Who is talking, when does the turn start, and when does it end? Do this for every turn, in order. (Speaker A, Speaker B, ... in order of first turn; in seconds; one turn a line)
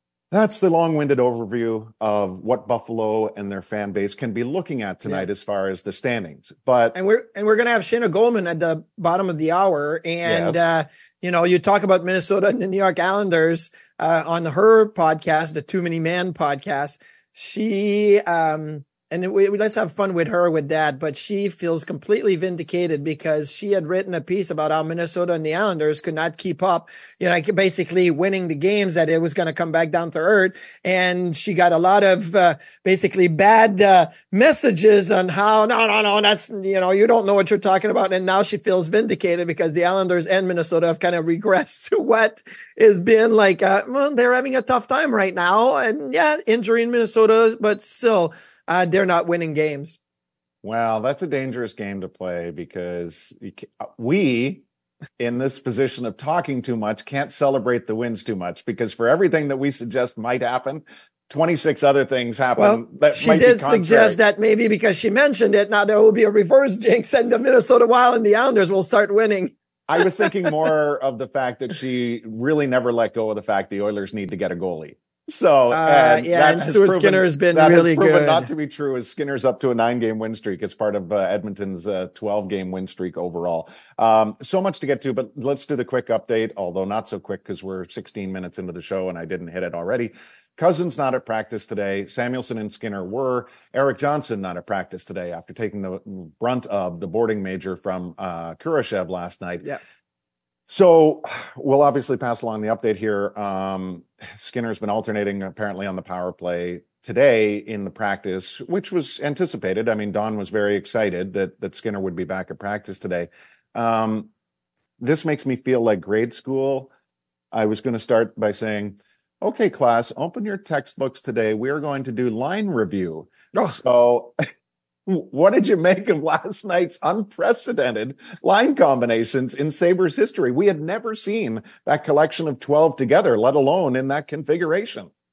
Speaker A: 0.3-7.0
Speaker B: 6.9-50.0
Speaker A: 10.2-10.7
Speaker A: 50.6-54.6
Speaker A: 55.2-64.2
Speaker B: 62.6-70.7
Speaker A: 69.9-99.7
Speaker B: 75.7-78.5
Speaker A: 100.7-114.3
Speaker A: 115.0-116.9
Speaker A: 117.5-124.3
Speaker A: 125.1-135.1